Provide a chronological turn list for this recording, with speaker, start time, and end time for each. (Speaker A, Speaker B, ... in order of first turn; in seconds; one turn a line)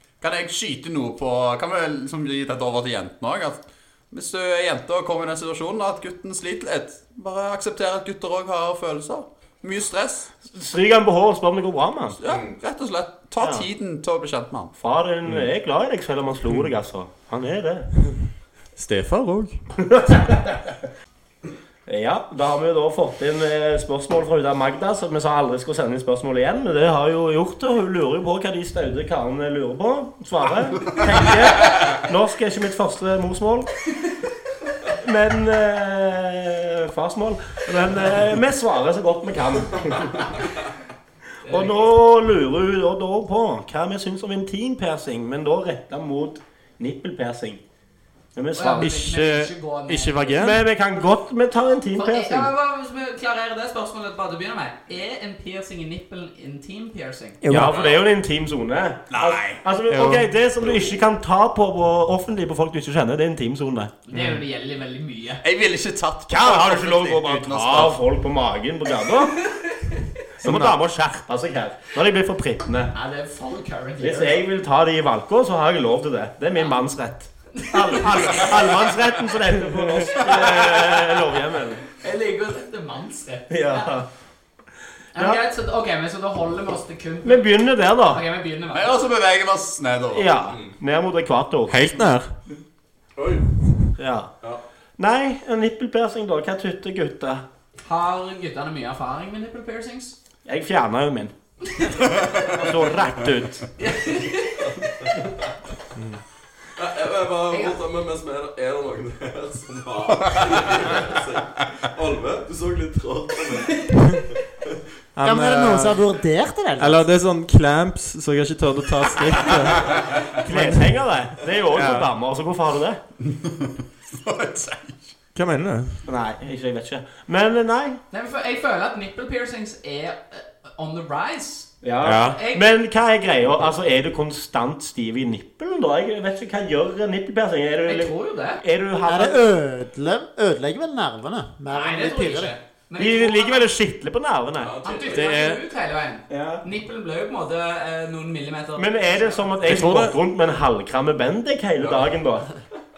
Speaker A: 0.2-3.6
Speaker A: 4.1-10.3
Speaker B: 10.5-12.2
Speaker A: 12.2-14.7
Speaker B: 13.4-13.7
Speaker B: 14.8-17.9
Speaker C: 18.8-19.6
Speaker B: 19.8-20.8
Speaker B: 21.9-33.7
Speaker B: 34.9-40.4
Speaker D: 41.4-41.9
Speaker B: 41.5-47.6
Speaker B: 48.3-49.1
Speaker D: 48.5-50.5
Speaker C: 48.8-50.6
Speaker B: 50.4-52.5
Speaker D: 52.0-57.4
Speaker E: 57.4-57.9
Speaker B: 57.5-63.9
Speaker A: 59.1-59.6
Speaker C: 59.9-60.3
Speaker D: 64.1-65.4
Speaker A: 65.4-68.0
Speaker B: 66.3-69.4
Speaker B: 70.4-72.9
Speaker D: 72.9-74.4
Speaker B: 74.0-81.8
Speaker D: 77.6-78.5
Speaker D: 82.0-83.9
Speaker B: 83.5-84.1
Speaker D: 85.1-89.0
Speaker B: 85.2-85.4
Speaker B: 87.2-88.2
Speaker A: 88.7-90.3
Speaker B: 90.1-91.8
Speaker F: 90.5-90.7
Speaker C: 91.7-92.3
Speaker F: 93.2-93.4
Speaker B: 94.0-94.3
Speaker B: 95.0-97.4
Speaker D: 97.8-100.2
Speaker B: 100.4-101.3
Speaker D: 101.7-102.1
Speaker B: 102.5-103.7
Speaker D: 103.8-105.1
Speaker F: 106.8-113.9
Speaker D: 107.5-107.8
Speaker C: 115.2-116.0
Speaker E: 115.2-117.1
Speaker C: 116.8-120.9
Speaker B: 120.4-123.0
Speaker C: 121.7-122.1
Speaker A: 123.3-125.1
Speaker C: 125.3-126.0
Speaker B: 126.0-128.0
Speaker D: 128.1-131.7
Speaker B: 131.8-139.4
Speaker C: 132.0-132.4
Speaker D: 132.2-132.6
Speaker D: 137.8-138.6
Speaker E: 139.1-142.5
Speaker D: 141.7-143.7
Speaker B: 142.9-144.8
Speaker F: 144.6-145.3
Speaker D: 144.8-149.5
Speaker C: 145.1-145.6
Speaker B: 146.3-146.6
Speaker B: 148.8-152.5
Speaker C: 149.6-150.2
Speaker F: 151.8-152.1